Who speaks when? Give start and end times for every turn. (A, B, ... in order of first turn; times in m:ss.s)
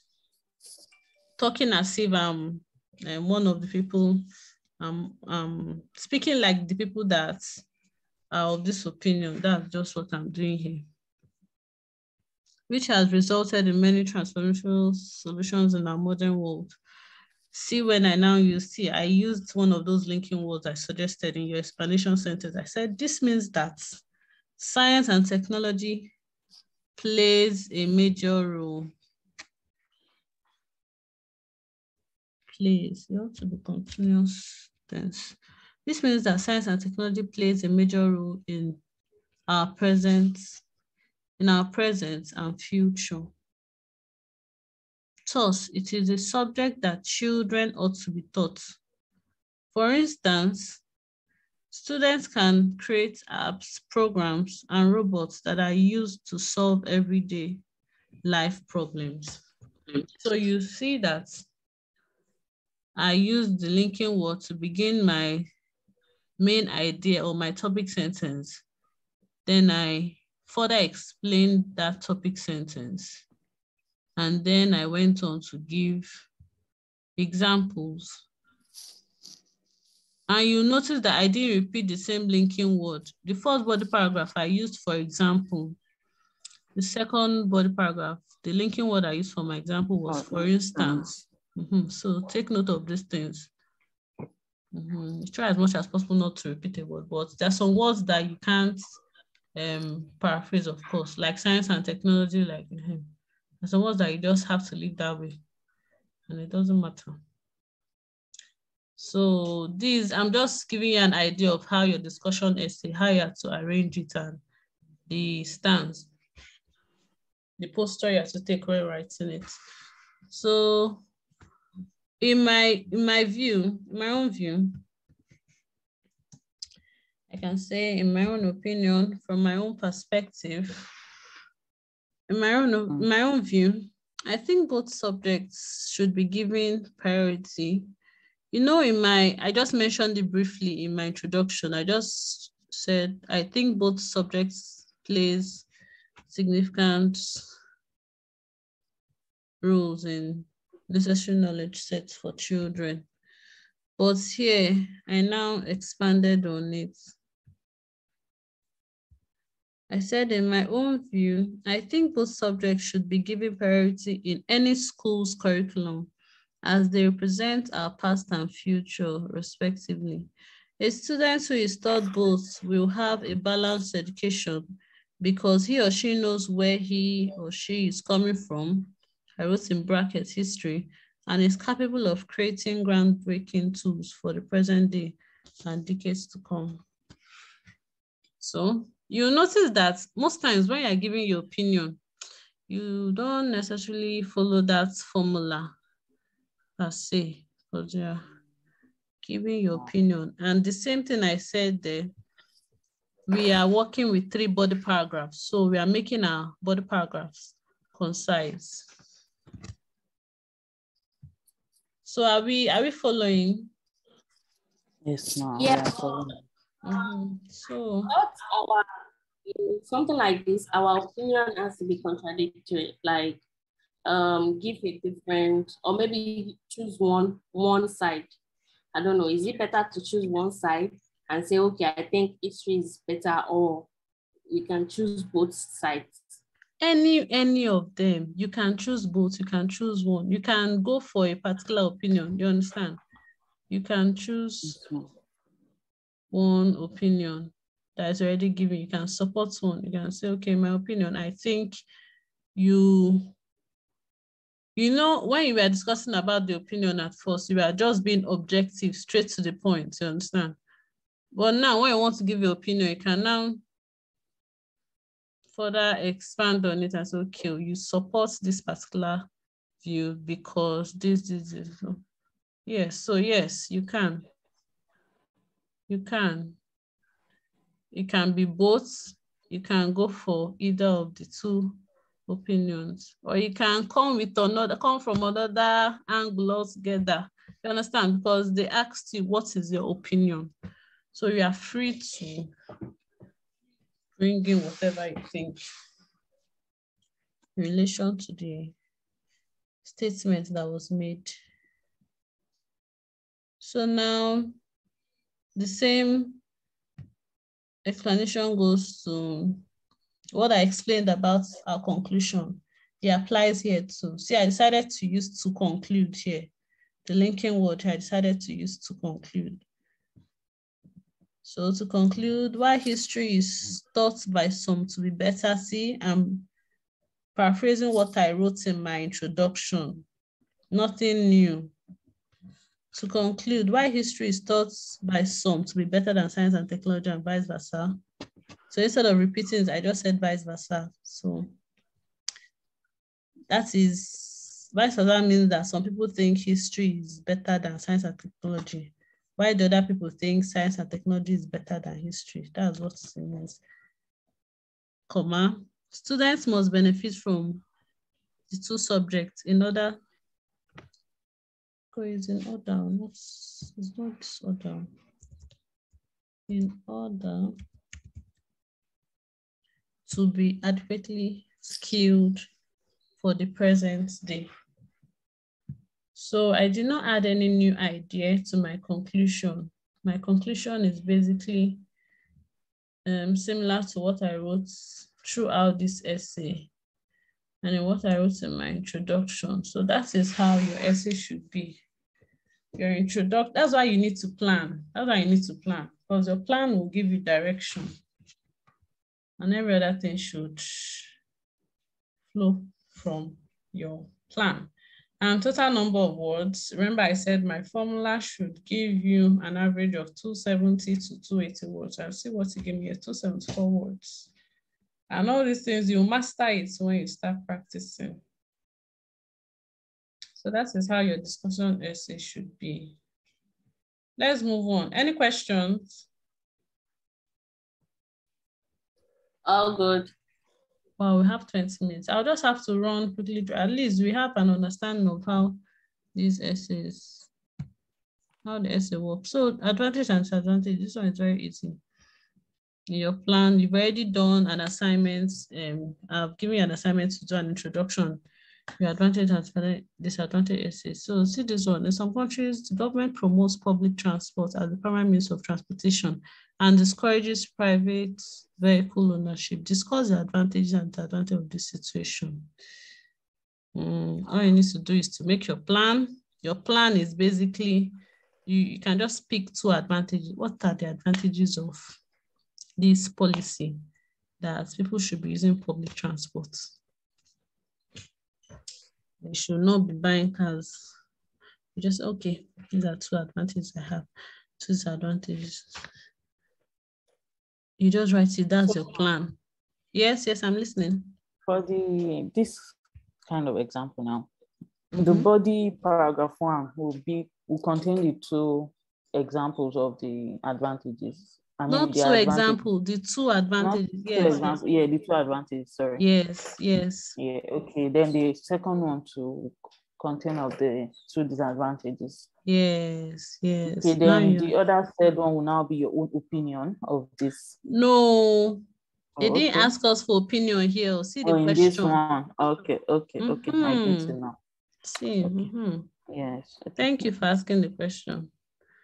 0:01.4-0:04.2 A
0:04.8-0:07.6 A
0:08.3-0:10.9 A
0:12.7-0:16.8 A
0:17.5-0:24.0 A
0:24.6-0:26.1 A
0:27.0-0:28.9 A
0:32.5-0:38.8 A
0:39.5-0:40.6 A
0:41.4-0:43.3 A
0:45.3-0:48.8 A
0:49.7-0:50.8 A
0:51.7-0:57.6 A
0:58.2-0:59.4 A
1:00.2-1:01.4 A
1:03.0-1:05.4 A
1:06.4-1:08.6 A
1:09.4-1:13.2 A
1:14.2-1:16.3 A
1:17.2-1:18.2 A
1:20.3-1:25.8 A
1:26.7-1:33.5 A
1:30.1-1:31.0 B
1:34.7-1:38.9 A
1:39.5-1:45.4 A
1:46.3-1:47.2 A
1:49.0-1:54.4 A
1:55.1-1:56.1 A
1:57.6-1:59.5 A
2:00.3-2:01.0 A
2:02.2-2:04.8 A
2:07.3-2:10.8 A
2:12.3-2:17.9 A
2:18.5-2:25.7 A
2:26.3-2:27.5 A
2:29.6-2:33.0 A
2:34.0-2:37.2 A
2:39.9-2:46.1 A
2:46.6-2:54.6 A
2:55.2-3:06.8 A
3:08.4-3:12.0 A
3:12.7-3:15.7 A
3:16.8-3:18.2 A
3:19.2-3:22.1 A
3:23.3-3:28.9 A
3:32.0-3:33.7 A
3:35.0-3:36.4 B
3:35.6-3:36.2 C
3:36.8-3:38.1 A
3:38.1-3:38.8 C
3:39.4-3:43.4 C
3:44.0-3:48.3 C
3:48.9-3:53.9 C
3:54.5-3:56.2 C
3:56.8-4:03.0 A
4:03.7-4:04.8 A
4:04.6-4:05.1 B
4:06.3-4:11.8 A
4:12.5-4:13.3 A
4:14.8-4:20.6 A
4:21.3-4:23.6 A
4:25.5-4:29.3 A
4:29.8-4:32.0 A
4:32.6-4:34.2 A
4:35.9-4:36.6 A
4:37.9-4:50.5 A
4:51.1-4:52.5 A
4:54.2-4:55.6 A
4:57.6-4:58.7 A
4:59.8-5:01.3 A
5:03.6-5:04.6 A
5:05.6-5:06.4 A
5:07.8-5:09.6 A
5:10.3-5:16.5 A
5:17.0-5:19.6 A
5:21.4-5:26.5 A
5:27.3-5:30.0 A
5:30.7-5:31.7 A
5:32.9-5:38.0 A
5:38.7-5:41.5 A
5:43.5-5:53.6 A
5:55.1-5:57.6 A
5:58.5-6:00.0 A
6:01.9-6:04.9 A
6:06.5-6:07.6 A
6:10.0-6:12.5 A
6:13.2-6:14.5 A
6:16.1-6:21.8 A
6:23.0-6:26.7 A
6:27.6-6:31.8 A
6:32.8-6:37.9 A
6:39.4-6:41.2 A
6:42.3-6:54.3 A
6:55.1-6:58.2 A
7:00.4-7:03.0 A
7:04.2-7:06.1 A
7:09.4-7:10.1 C
7:11.0-7:15.6 A
7:16.1-7:17.3 A
7:18.4-7:21.8 A
7:22.9-7:28.2 A
7:28.8-7:42.5 A
7:43.7-7:52.0 A
7:52.8-7:53.8 A
7:54.4-7:56.8 A
7:59.2-8:00.9 A
8:01.7-8:04.1 A
8:04.6-8:05.7 A
8:07.8-8:09.4 A
8:09.9-8:11.1 A
8:11.5-8:12.7 B
8:13.2-8:14.3 B
8:14.9-8:15.3 A
8:15.0-8:22.6 B
8:21.7-8:24.6 A
8:23.6-8:26.0 B
8:26.0-8:27.2 A
8:27.2-8:32.3 B
8:32.4-8:34.5 A
8:33.6-8:37.5 B
8:37.6-8:38.6 A
8:39.2-8:39.7 B
8:39.2-8:42.0 A
8:41.2-8:44.4 B
8:43.2-8:44.2 A
8:44.8-8:45.9 A
8:45.2-8:45.5 B
8:46.1-8:47.1 B
8:46.8-8:48.3 A